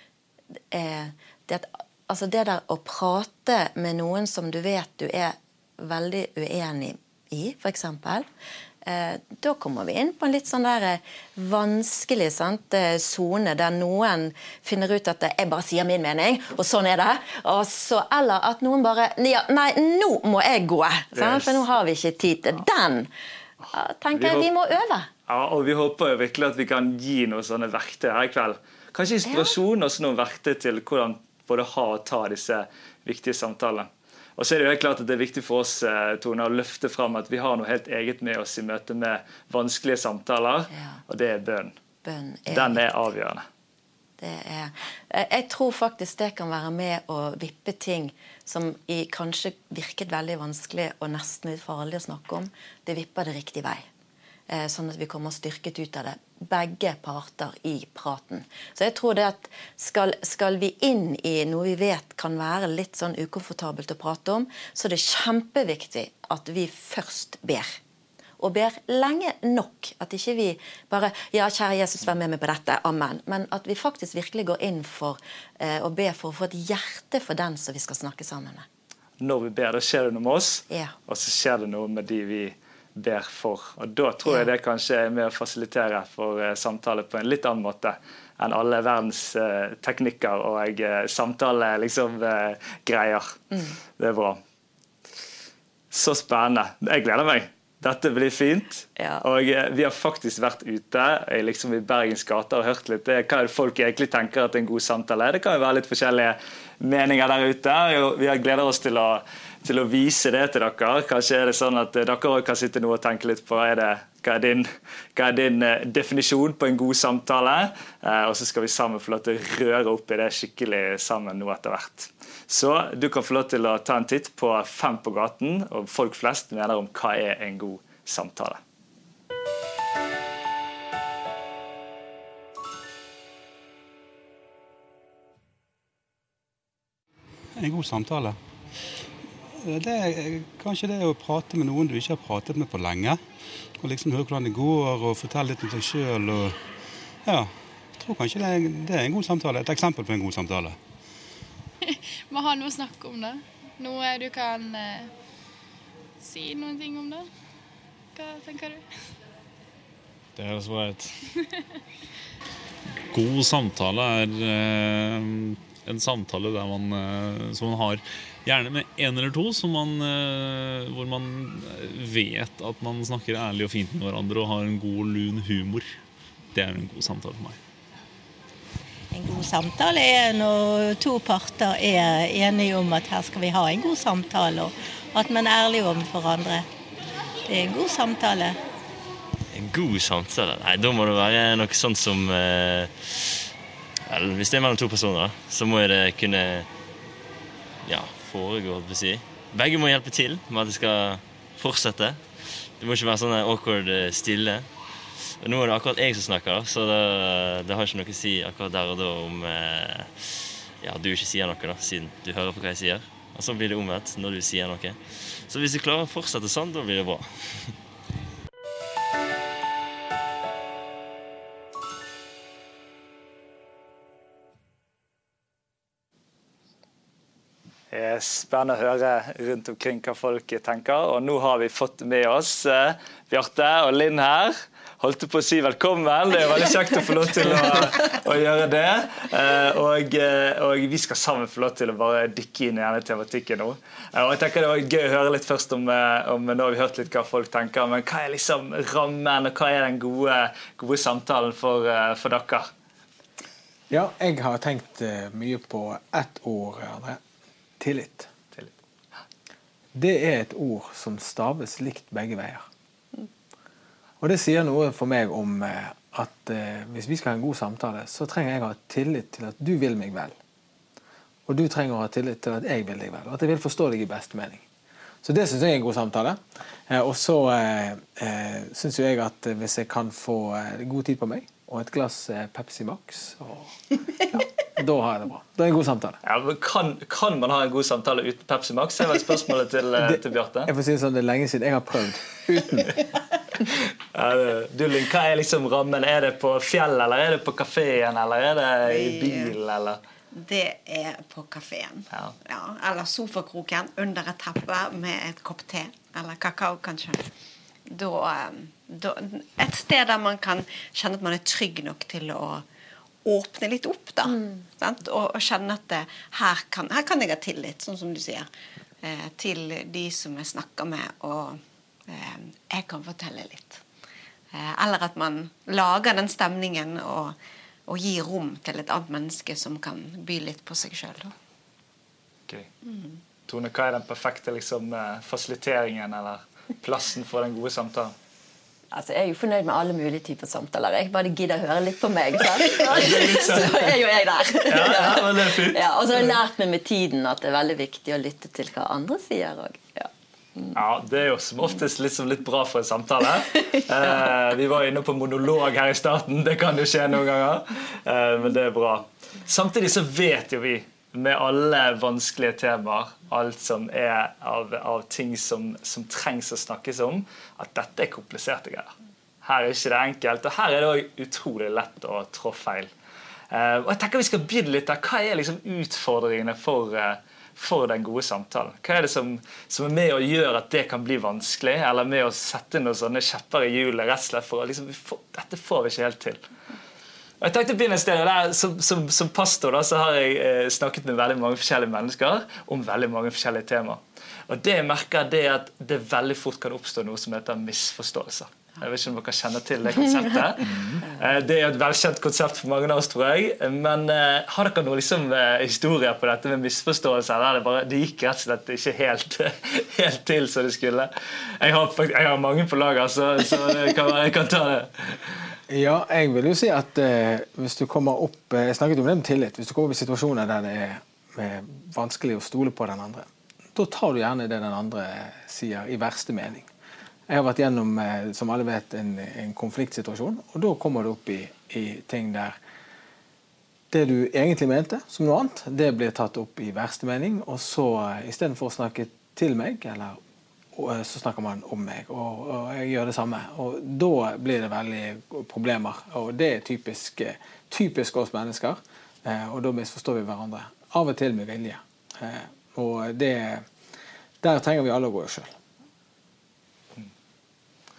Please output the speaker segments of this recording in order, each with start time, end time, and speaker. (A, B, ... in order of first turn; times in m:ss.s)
0:00.7-0:08.3 A
0:08.8-0:23.1 A
0:21.2-0:21.6 B
0:23.7-0:25.1 A
0:24.1-0:24.5 B
0:25.3-0:41.7 B
0:29.3-0:29.5 A
0:40.7-0:41.0 A
0:42.0-0:42.8 A
0:42.5-0:43.4 B
0:44.2-0:53.8 A
0:54.5-1:07.8 A
1:08.4-1:18.6 A
1:19.2-1:33.4 B
1:34.0-1:34.4 B
1:35.9-2:08.6 B
1:39.0-1:39.2 A
2:17.6-2:18.4 C
2:19.6-2:23.2 C
2:23.8-2:26.7 C
2:27.2-2:30.8 C
2:31.9-2:35.1 D
2:36.2-2:37.3 D
2:38.2-2:38.9 D
2:40.4-2:41.1 E
2:41.4-2:41.6 D
2:43.1-2:56.0 E
2:56.5-2:57.6 E
2:59.1-3:06.7 F
3:07.5-3:08.6 F
3:09.5-3:13.4 G
3:14.1-3:16.7 G
3:17.8-3:37.8 G
3:47.9-4:12.7 B
4:13.9-4:17.2 H
4:17.8-4:18.3 H
4:19.9-4:22.6 H
4:24.2-4:30.4 H
4:31.5-4:34.7 H
4:35.2-4:43.8 H
4:44.8-4:46.2 H
4:46.2-4:50.7 B
4:50.0-4:52.9 H
4:54.1-5:00.0 B
4:58.8-4:59.5 I
5:00.3-5:07.3 I
5:07.9-5:12.6 I
5:13.2-5:18.5 I
5:19.0-5:23.8 I
5:24.5-5:27.4 I
5:27.9-5:31.3 I
5:33.5-5:38.2 B
5:38.9-5:50.7 A
5:42.8-5:44.0 B
5:44.7-5:46.3 B
5:50.7-6:12.9 B
6:13.5-6:26.4 B
6:27.4-6:55.2 B
6:55.7-7:06.7 H
7:07.3-7:12.6 H
7:13.9-7:20.2 H
7:20.7-7:33.7 H
7:34.4-7:35.5 H